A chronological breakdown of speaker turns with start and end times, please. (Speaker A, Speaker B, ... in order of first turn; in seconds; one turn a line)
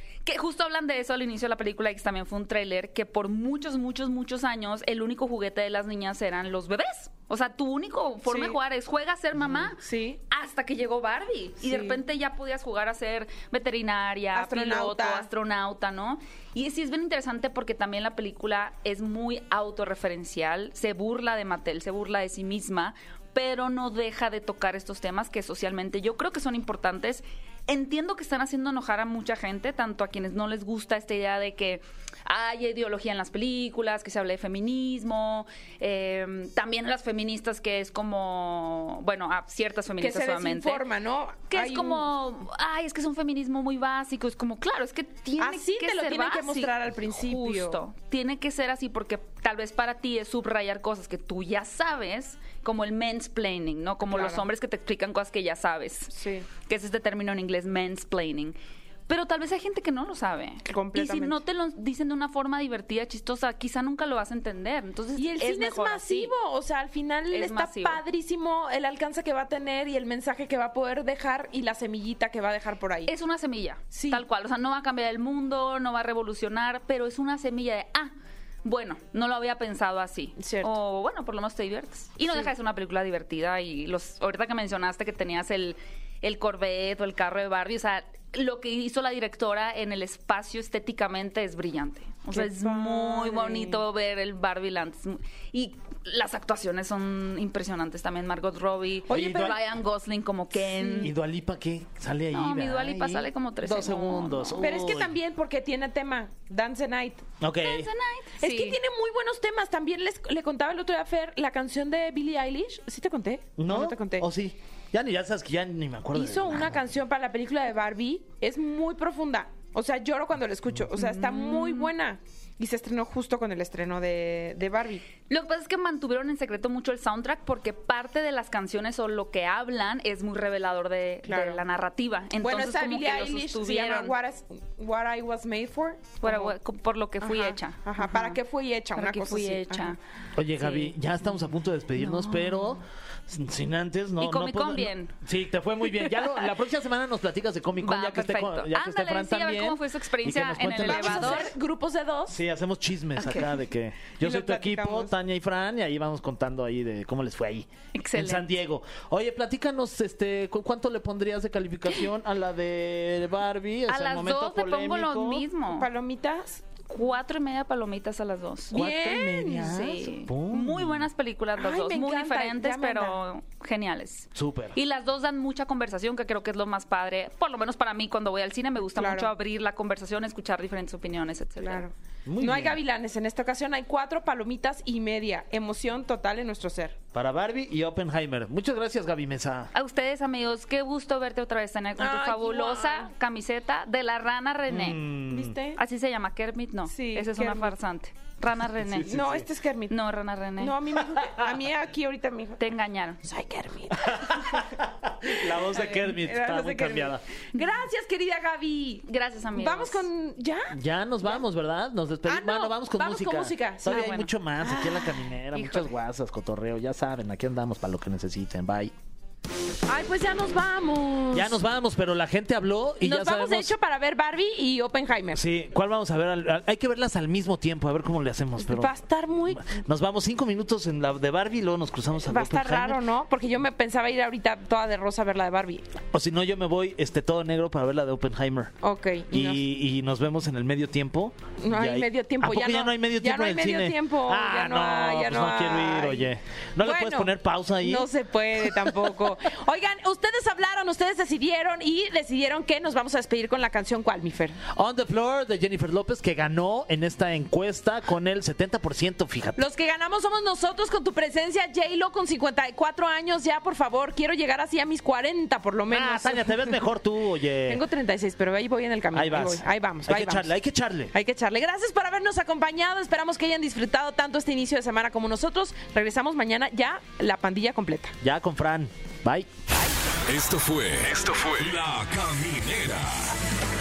Speaker A: 0.2-40.8
Speaker B: 8.3-8.6
Speaker B: 9.5-10.2
Speaker B: 11.6-12.0
Speaker B: 14.3-15.3
Speaker B: 40.0-42.1
Speaker A: 41.5-58.5
Speaker B: 45.4-47.8
Speaker B: 54.0-54.4
Speaker B: 56.1-56.5
Speaker A: 59.1-66.3
Speaker B: 60.6-61.4
Speaker B: 65.2-73.1
Speaker A: 67.3-68.0
Speaker A: 73.1-78.1
Speaker B: 73.9-74.2
Speaker A: 78.6-101.1
Speaker B: 80.4-80.7
Speaker B: 92.3-93.8
Speaker B: 99.1-99.6
Speaker C: 99.1-99.6
Speaker B: 100.8-101.0
Speaker C: 101.0-105.1
Speaker A: 102.3-104.6
Speaker B: 104.6-107.2
Speaker C: 107.4-107.9
Speaker A: 107.6-108.8
Speaker B: 108.4-114.2
Speaker C: 113.6-116.8
Speaker B: 116.1-125.0
Speaker A: 120.9-121.9
Speaker A: 125.3-134.1
Speaker B: 131.2-131.6
Speaker B: 132.4-136.6
Speaker A: 136.2-138.4
Speaker B: 137.2-139.9
Speaker A: 138.9-140.0
Speaker C: 140.3-151.4
Speaker A: 140.6-141.0
Speaker A: 142.0-142.8
Speaker A: 144.2-145.1
Speaker A: 146.0-146.4
Speaker A: 147.8-151.5
Speaker B: 150.8-152.4
Speaker C: 152.3-165.5
Speaker B: 153.2-153.5
Speaker B: 154.2-155.1
Speaker A: 157.9-158.6
Speaker A: 163.9-165.9
Speaker B: 165.7-166.7
Speaker A: 166.8-169.0
Speaker B: 168.7-169.8
Speaker C: 168.7-171.1
Speaker A: 169.5-181.8
Speaker B: 171.6-173.2
Speaker C: 174.3-174.8
Speaker B: 178.9-179.3
Speaker B: 181.6-186.9
Speaker C: 182.3-182.8
Speaker C: 187.1-189.7
Speaker A: 189.7-195.0
Speaker B: 192.0-193.1
Speaker C: 194.7-195.5
Speaker B: 195.3-195.8
Speaker A: 195.8-199.3
Speaker B: 196.9-197.7
Speaker C: 198.8-199.4
Speaker B: 199.0-199.9
Speaker A: 199.9-200.8
Speaker B: 200.6-202.7
Speaker A: 202.6-203.2
Speaker B: 203.2-204.7
Speaker C: 204.0-207.2
Speaker B: 205.3-211.4
Speaker A: 209.0-210.1
Speaker C: 210.7-218.9
Speaker B: 212.2-215.2
Speaker A: 213.8-214.3
Speaker A: 215.5-215.9
Speaker B: 219.9-221.6
Speaker C: 221.3-223.7
Speaker B: 223.0-225.4
Speaker C: 225.3-228.9
Speaker B: 228.6-229.8
Speaker C: 229.6-233.0
Speaker B: 232.3-235.8
Speaker C: 236.1-238.7
Speaker B: 238.8-239.6
Speaker C: 239.3-248.1
Speaker B: 241.6-246.3
Speaker B: 246.8-254.6
Speaker C: 248.6-249.1
Speaker C: 254.7-259.6
Speaker B: 259.6-266.8
Speaker C: 265.9-267.8
Speaker B: 267.6-270.5
Speaker C: 269.1-271.1
Speaker B: 271.1-278.2
Speaker C: 278.2-279.5
Speaker D: 280.2-283.3